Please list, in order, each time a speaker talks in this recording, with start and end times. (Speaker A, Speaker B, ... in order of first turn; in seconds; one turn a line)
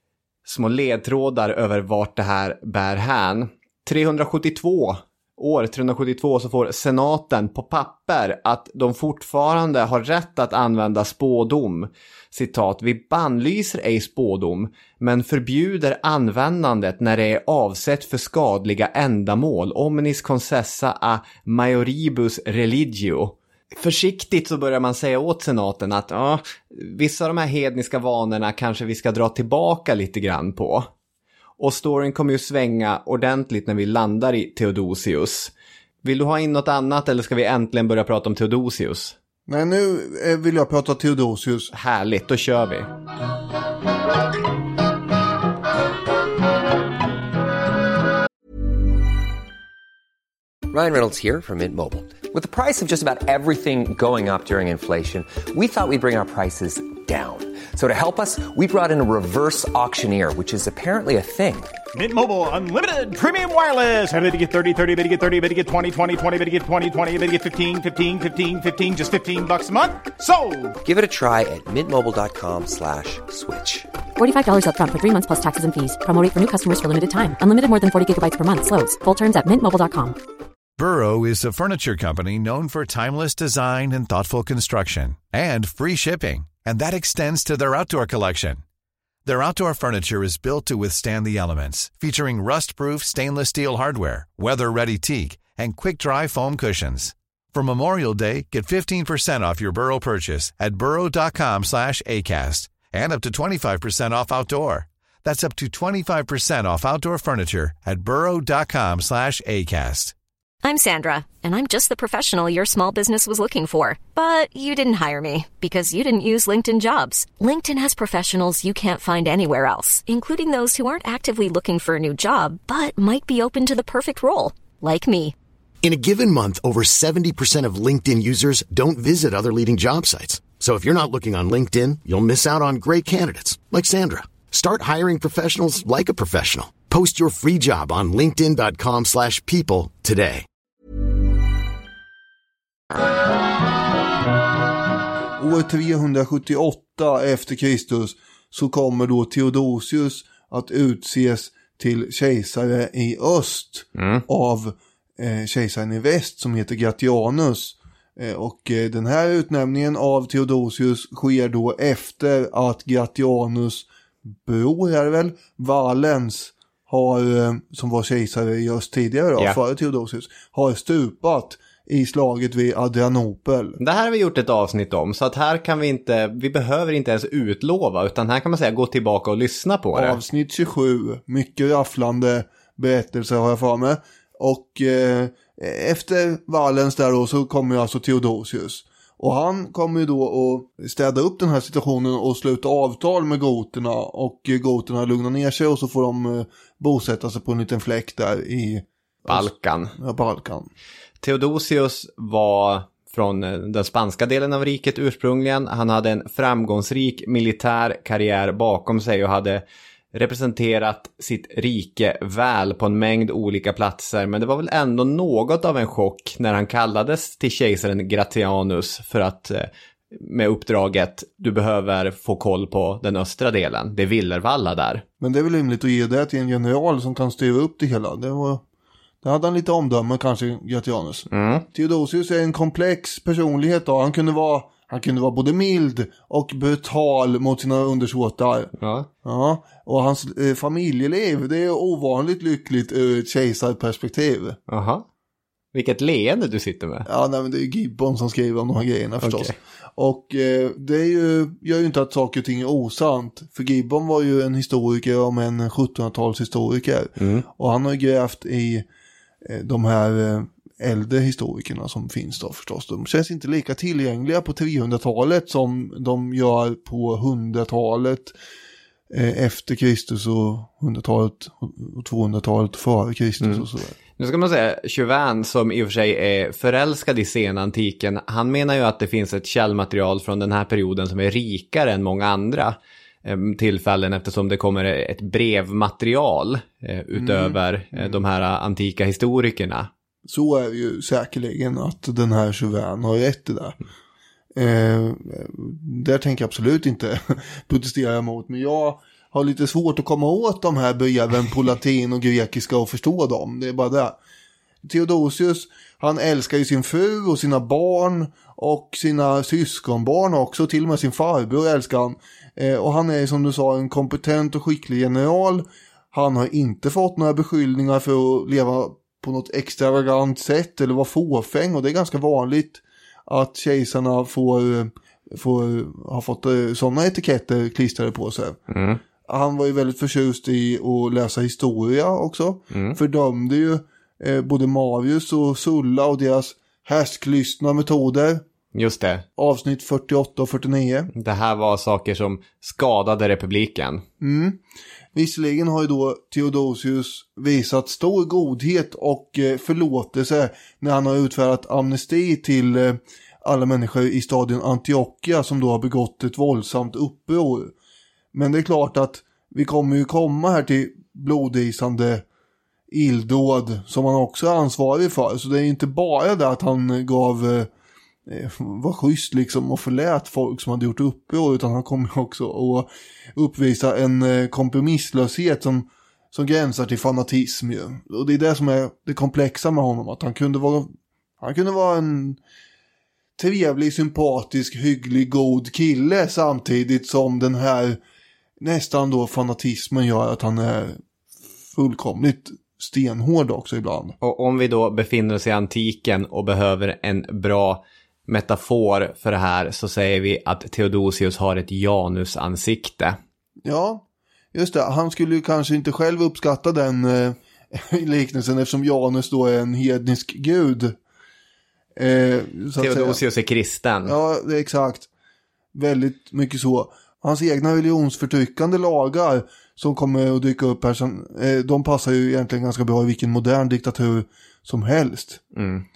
Speaker A: 0.5-30.9
Speaker A: 31.6-35.5
Speaker A: 36.0-39.1
Speaker B: 39.5-41.7
Speaker A: 41.7-42.9
Speaker C: 50.7-61.8
Speaker D: 61.9-70.8
Speaker C: 70.8-73.9
Speaker E: 74.2-80.2
Speaker F: 80.8-88.6
Speaker F: 89.3-110.2
Speaker G: 110.6-125.3
Speaker H: 125.8-140.4
Speaker B: 145.4-173.8
Speaker A: 153.9-154.2
Speaker A: 173.8-180.2
Speaker B: 179.9-200.7
Speaker A: 199.3-199.9
Speaker A: 201.2-225.0
Speaker B: 225.2-228.6
Speaker B: 229.2-238.7
Speaker A: 231.3-231.7
Speaker A: 238.8-239.1
Speaker B: 239.2-244.6
Speaker A: 244.7-245.1
Speaker A: 245.7-247.1
Speaker B: 247.1-258.9
Speaker A: 249.2-249.5
Speaker A: 257.2-257.4
Speaker B: 259.4-268.3
Speaker B: 269.1-274.0
Speaker A: 274.2-289.9
Speaker B: 287.1-288.2
Speaker B: 290.2-293.8
Speaker B: 294.5-304.2
Speaker B: 304.8-328.6
Speaker A: 328.7-329.0
Speaker B: 329.2-338.4
Speaker A: 332.7-333.0
Speaker A: 338.7-339.2
Speaker B: 339.4-341.1
Speaker A: 341.1-344.0
Speaker B: 344.2-344.6
Speaker B: 345.1-357.7
Speaker B: 358.3-362.2
Speaker B: 362.9-367.7
Speaker B: 368.3-382.4
Speaker B: 383.4-388.0
Speaker B: 388.6-391.0
Speaker B: 391.7-394.2
Speaker A: 394.2-403.2
Speaker B: 403.6-411.0
Speaker B: 412.0-413.2
Speaker A: 412.8-414.2
Speaker B: 414.0-415.1
Speaker B: 415.7-425.4
Speaker A: 425.5-425.9